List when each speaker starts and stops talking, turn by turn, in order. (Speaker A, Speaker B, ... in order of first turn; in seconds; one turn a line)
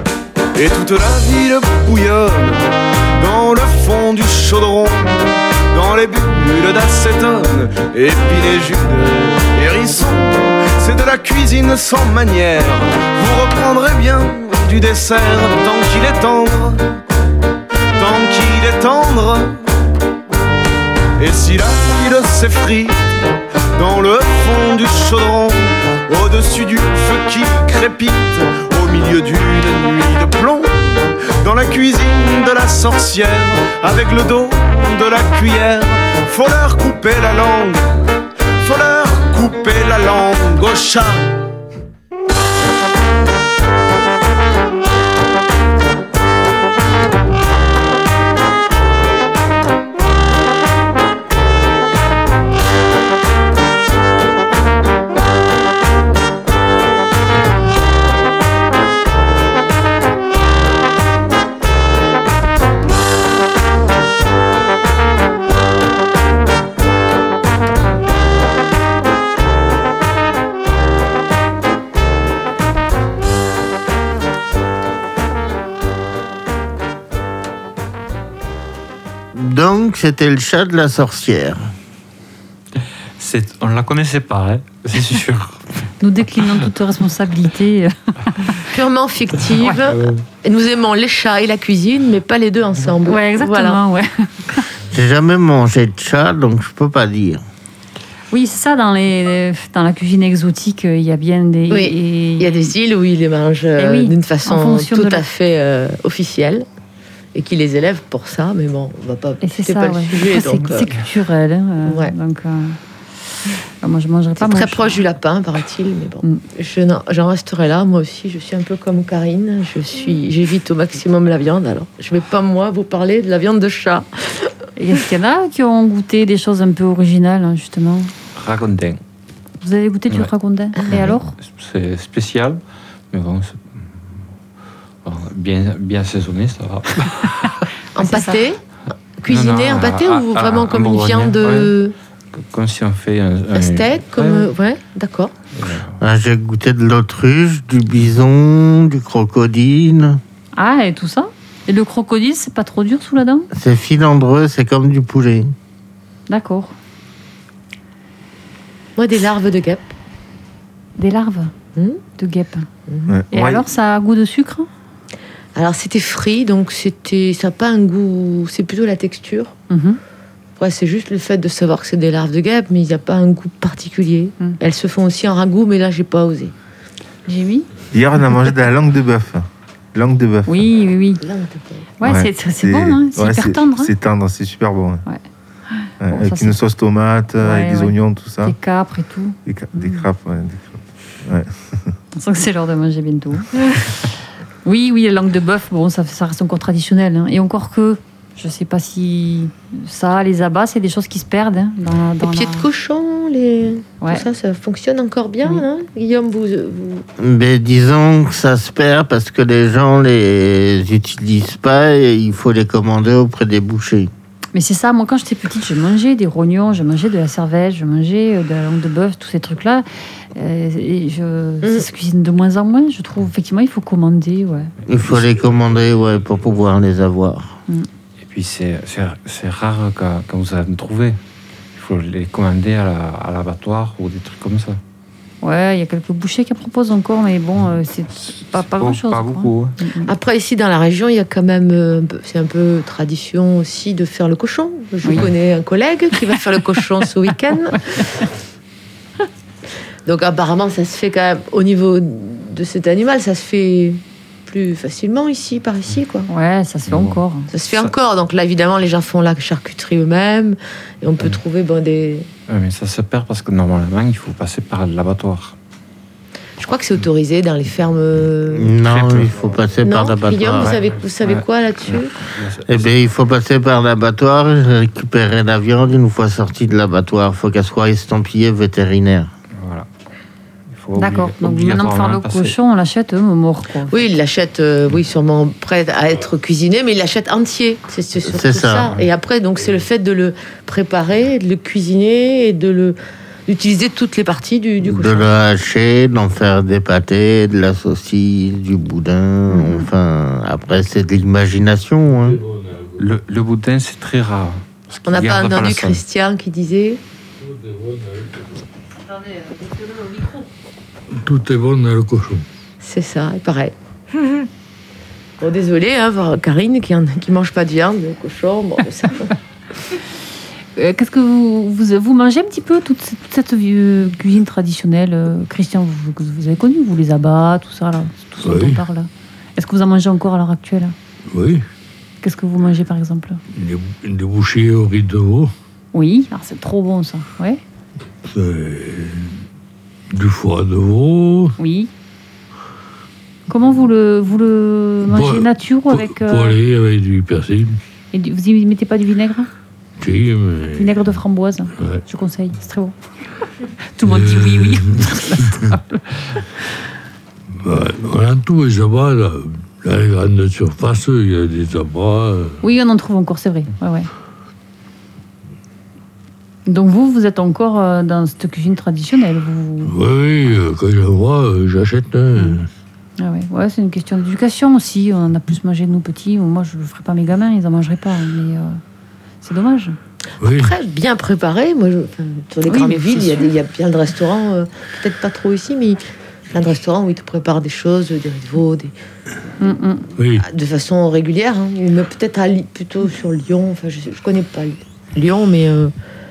Speaker A: 0.5-17.0
Speaker A: 17.9-19.6
Speaker A: 21.2-23.2
Speaker A: 23.7-38.0
Speaker A: 38.6-41.3
Speaker B: 79.3-81.7
Speaker C: 83.2-85.6
Speaker D: 86.0-88.7
Speaker E: 88.7-93.8
Speaker C: 89.8-90.2
Speaker D: 93.0-94.7
Speaker B: 94.9-97.4
Speaker D: 98.3-102.7
Speaker E: 101.7-106.7
Speaker D: 103.8-105.2
Speaker E: 107.3-110.9
Speaker D: 109.4-112.8
Speaker E: 111.8-112.1
Speaker D: 113.8-115.0
Speaker E: 114.4-124.5
Speaker D: 124.8-128.1
Speaker C: 128.3-129.0
Speaker D: 129.6-131.3
Speaker E: 130.8-131.1
Speaker C: 130.9-134.2
Speaker C: 135.0-137.6
Speaker E: 137.9-138.6
Speaker D: 138.0-138.4
Speaker E: 139.2-141.9
Speaker C: 139.3-141.8
Speaker C: 142.3-144.5
Speaker E: 143.5-145.4
Speaker C: 145.5-146.0
Speaker B: 146.0-150.2
Speaker D: 150.6-153.5
Speaker B: 153.5-155.5
Speaker D: 156.3-156.7
Speaker E: 159.0-159.9
Speaker D: 161.0-161.5
Speaker D: 162.2-162.7
Speaker E: 162.9-163.1
Speaker F: 163.1-163.6
Speaker D: 163.3-164.7
Speaker E: 165.5-169.5
Speaker D: 169.7-170.0
Speaker E: 170.6-176.5
Speaker D: 177.3-177.7
Speaker F: 177.9-180.6
Speaker D: 180.5-181.2
Speaker E: 181.2-181.9
Speaker D: 182.0-183.9
Speaker F: 182.0-185.0
Speaker D: 185.1-186.5
Speaker F: 186.0-188.6
Speaker D: 187.4-190.1
Speaker F: 189.4-191.9
Speaker D: 192.1-194.1
Speaker D: 194.6-202.7
Speaker E: 202.2-207.0
Speaker D: 204.0-204.2
Speaker B: 207.2-214.1
Speaker D: 214.5-224.7
Speaker B: 224.9-227.6
Speaker C: 228.2-231.2
Speaker C: 231.7-234.8
Speaker D: 235.4-240.1
Speaker C: 238.4-239.8
Speaker E: 240.1-248.0
Speaker D: 245.0-245.3
Speaker D: 247.8-248.2
Speaker E: 250.0-256.3
Speaker D: 256.3-257.5
Speaker C: 256.9-257.2
Speaker E: 257.5-262.3
Speaker C: 262.5-265.5
Speaker E: 266.6-268.7
Speaker B: 268.5-270.8
Speaker C: 268.8-269.3
Speaker E: 269.8-272.1
Speaker C: 270.6-272.9
Speaker B: 272.7-279.3
Speaker C: 279.5-279.9
Speaker C: 280.7-282.6
Speaker D: 280.9-284.0
Speaker E: 283.9-295.3
Speaker B: 288.2-289.0
Speaker B: 294.8-302.4
Speaker D: 299.5-299.9
Speaker G: 302.1-303.1
Speaker C: 303.0-306.0
Speaker E: 305.1-307.0
Speaker G: 307.4-308.6
Speaker D: 309.9-310.2
Speaker G: 311.1-312.4
Speaker E: 312.8-313.7
Speaker E: 315.4-319.3
Speaker D: 320.7-330.9
Speaker G: 328.4-328.8
Speaker G: 331.3-331.6
Speaker D: 332.2-333.4
Speaker G: 333.5-335.5
Speaker D: 335.9-337.6
Speaker G: 338.2-339.4
Speaker G: 340.1-341.5
Speaker D: 341.6-341.9
Speaker D: 343.5-346.6
Speaker G: 345.1-347.8
Speaker D: 348.1-349.5
Speaker G: 350.0-351.0
Speaker D: 350.7-352.9
Speaker D: 353.9-356.4
Speaker G: 354.0-355.7
Speaker G: 357.6-362.6
Speaker D: 362.6-364.1
Speaker D: 366.7-369.9
Speaker G: 369.8-372.7
Speaker D: 372.3-372.6
Speaker D: 373.2-378.8
Speaker D: 379.4-380.0
Speaker G: 380.4-380.7
Speaker E: 380.4-388.9
Speaker D: 382.7-383.5
Speaker D: 389.6-390.1
Speaker G: 390.1-390.4
Speaker E: 390.4-395.9